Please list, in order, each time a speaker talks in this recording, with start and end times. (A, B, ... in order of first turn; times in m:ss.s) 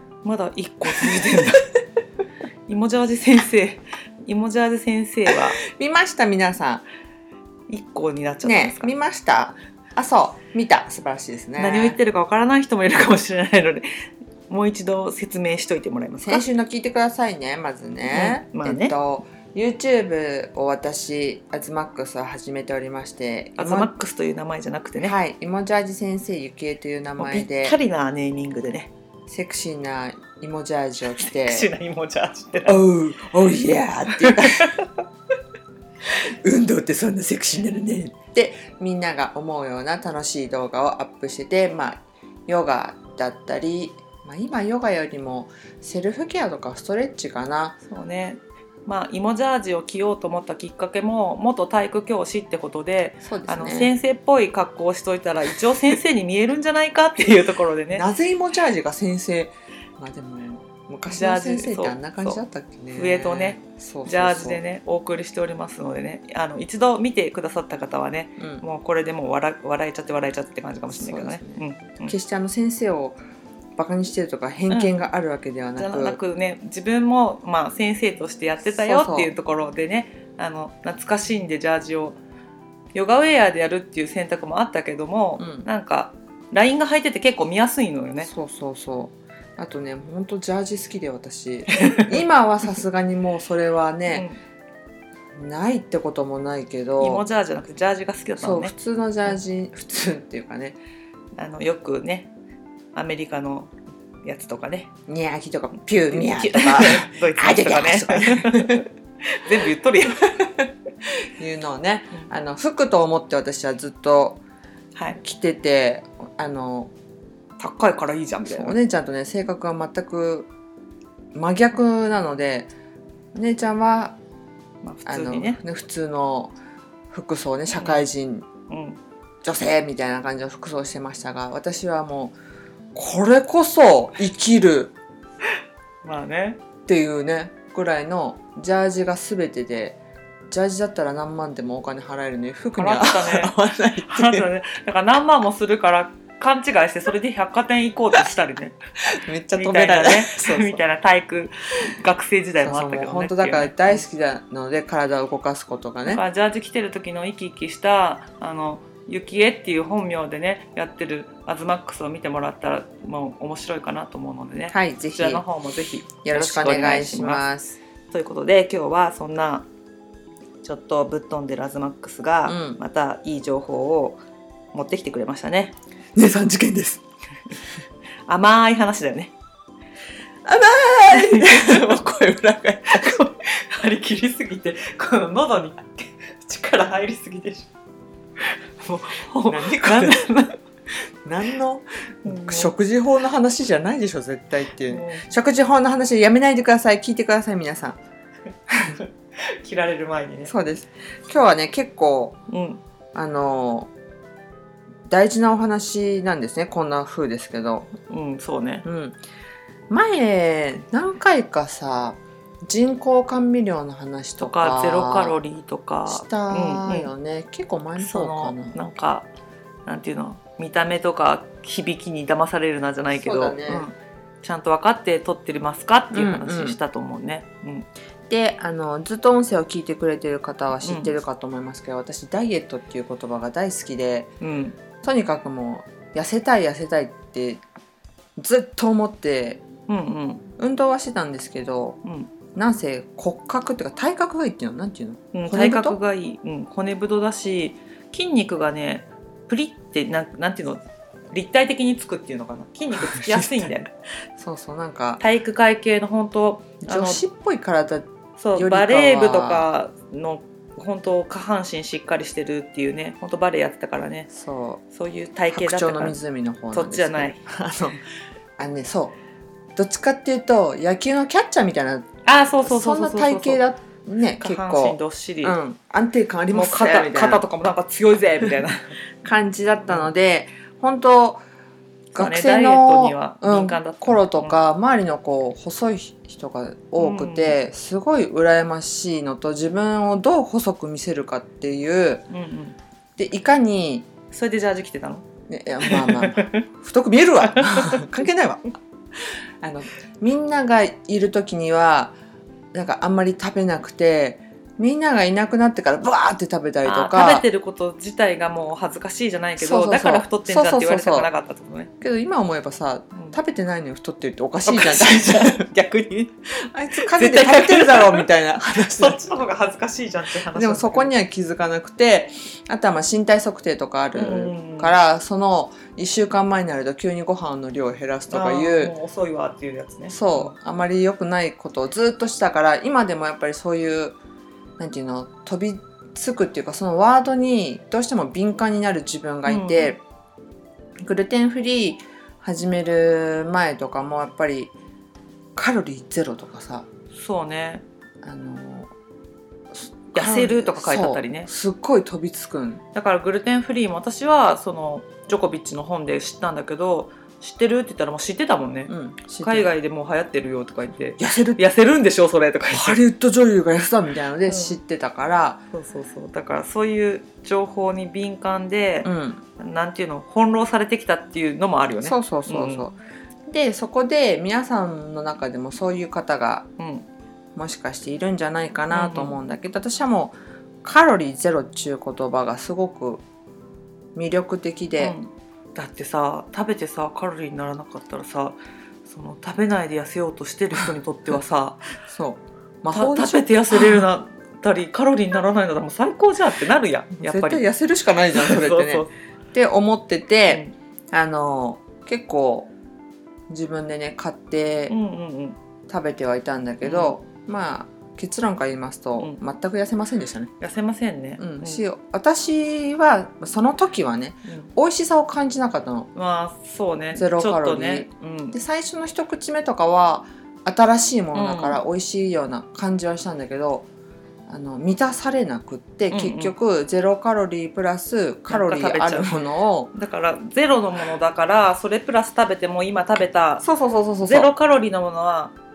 0:00.2-0:01.7 A
0:00.9-0:01.3 B
0:02.7-0:05.6 A
0:05.3-0:06.8 B
0:07.7-0:08.9 A
0:08.4-0:12.0 B
0:11.6-0:13.9 A
0:14.5-0:16.4 A
0:16.2-0:23.9 B
0:18.1-0:18.9 A
0:23.6-0:25.1 A
0:25.0-0:27.8 B
0:27.2-0:28.9 A
0:29.3-0:31.7 B
0:31.2-0:32.8 A
0:32.7-0:34.7 B
0:34.1-0:34.9 A
0:36.2-0:47.8 B
0:47.8-0:58.1 A
0:53.2-0:53.9 B
0:57.9-1:04.6 B
1:01.1-1:02.4 A
1:02.9-1:12.2 A
1:08.4-1:08.6 B
1:10.9-1:13.2 B
1:13.8-1:16.2 B
1:15.8-1:22.2 A
1:18.7-1:19.3 B
1:22.9-1:28.3 A
1:25.4-1:25.6 B
1:28.2-1:34.2 B
1:31.8-1:32.2 A
1:34.1-1:34.4 A
1:35.3-1:37.2 B
1:37.0-1:38.7 A
1:38.4-1:40.8 B
1:41.4-1:42.3 A
1:42.9-1:43.7 A
1:44.2-1:44.9 A
1:45.1-1:48.8 B
1:46.1-1:50.4 A
1:51.0-1:54.4 B
1:54.9-1:55.2 A
1:55.2-1:56.9 B
1:57.6-1:58.8 A
1:58.5-2:00.5 B
2:01.3-2:02.7 B
2:03.3-2:04.2 B
2:04.8-2:05.6 A
2:05.0-2:06.5 B
2:07.1-2:08.5 B
2:07.8-2:08.1 A
2:08.7-2:09.0 A
2:09.4-2:12.4 B
2:12.9-2:14.9 B
2:16.0-2:16.6 A
2:16.9-2:20.0 B
2:20.5-2:24.5 B
2:22.8-2:28.8 A
2:29.2-2:30.8 B
2:29.5-2:34.0 A
2:32.6-2:36.2 B
2:36.0-2:47.4 A
2:44.7-2:45.4 B
2:46.2-2:47.8 B
2:48.1-2:49.7 A
2:50.6-2:54.2 A
2:52.4-2:52.8 B
2:54.7-2:55.8 A
2:56.1-2:57.0 B
2:58.3-2:59.3 A
3:00.4-3:03.2 B
3:01.1-3:01.8 A
3:02.9-3:07.7 A
3:08.4-3:10.6 A
3:09.5-3:10.2 B
3:11.2-3:18.0 B
3:12.2-3:12.7 A
3:14.9-3:15.3 A
3:18.7-3:19.0 B
3:18.9-3:20.5 A
3:20.5-3:22.4 B
3:22.5-3:22.8 A
3:23.1-3:23.9 B
3:25.1-3:27.9 B
3:28.1-3:28.8 A
3:28.8-3:29.2 B
3:29.9-3:35.4 B
3:34.4-3:37.1 A
3:36.1-3:38.8 B
3:38.0-3:39.3 A
3:39.8-3:47.9 A
3:43.1-3:43.8 B
3:46.1-3:46.8 B
3:48.3-3:54.3 B
3:50.8-3:51.1 A
3:54.4-3:54.8 A
3:55.0-3:57.6 B
3:58.4-3:59.6 B
3:59.9-4:00.4 A
4:00.6-4:02.0 B
4:02.0-4:02.3 A
4:02.5-4:06.0 B
4:05.3-4:13.9 A
4:13.0-4:13.7 B
4:14.4-4:15.2 B
4:15.2-4:17.2 A
4:16.8-4:19.6 B
4:18.4-4:24.3 A
4:24.3-4:24.8 B
4:24.9-4:26.2 A
4:25.5-4:28.0 B
4:26.7-4:27.4 A
4:28.6-4:29.2 B
4:29.8-4:32.1 B
4:32.2-4:33.6 A
4:32.6-4:37.4 B
4:34.4-4:35.6 A
4:36.5-4:39.0 A
4:39.2-4:41.4 B
4:42.1-4:44.6 A
4:42.1-4:52.2 B
4:47.0-4:47.6 A
4:52.3-4:52.8 A
4:53.2-4:54.1 B
4:54.3-4:55.2 A
4:55.5-4:58.7 B
4:55.8-4:56.6 A
4:57.4-4:58.2 A
4:59.6-5:02.2 B
5:02.7-5:07.4 B
5:06.8-5:11.9 A
5:09.6-5:11.3 B
5:12.0-5:15.7 B
5:14.6-5:16.3 A
5:16.7-5:19.2 B
5:17.0-5:21.1 A
5:20.5-5:28.9 B
5:24.1-5:24.9 A
5:28.3-5:30.5 A
5:30.1-5:34.2 B
5:34.8-5:40.0 B
5:39.5-5:40.0 A
5:41.0-5:44.7 B
5:45.6-5:46.9 B
5:47.1-5:47.8 A
5:48.2-5:48.9 B
5:49.7-5:52.8 B
5:50.1-5:51.5 A
5:52.9-6:03.0 A
5:58.9-5:59.7 B
6:01.2-6:01.6 B
6:02.7-6:05.6 B
6:04.4-6:04.8 A
6:05.7-6:12.9 A
6:09.0-6:09.4 B
6:12.0-6:13.0 B
6:13.5-6:16.7 B
6:16.8-6:17.1 A
6:17.5-6:23.2 B
6:18.9-6:19.4 A
6:24.1-6:25.1 B
6:25.0-6:31.9 A
6:32.0-6:34.1 B
6:32.9-6:37.6 A
6:37.2-6:42.7 B
6:38.3-6:39.1 A
6:40.5-6:40.7 A
6:43.5-6:44.9 B
6:44.9-6:45.6 A
6:45.9-6:50.5 B
6:46.8-6:47.2 A
6:50.6-6:51.8 A
6:51.4-6:56.1 B
6:56.1-6:58.6 A
6:57.1-7:03.9 B
7:01.3-7:01.8 A
7:04.5-7:09.9 B
7:06.1-7:06.5 A
7:08.5-7:09.4 A
7:09.9-7:13.6 A
7:13.6-7:14.5 B
7:14.2-7:15.5 A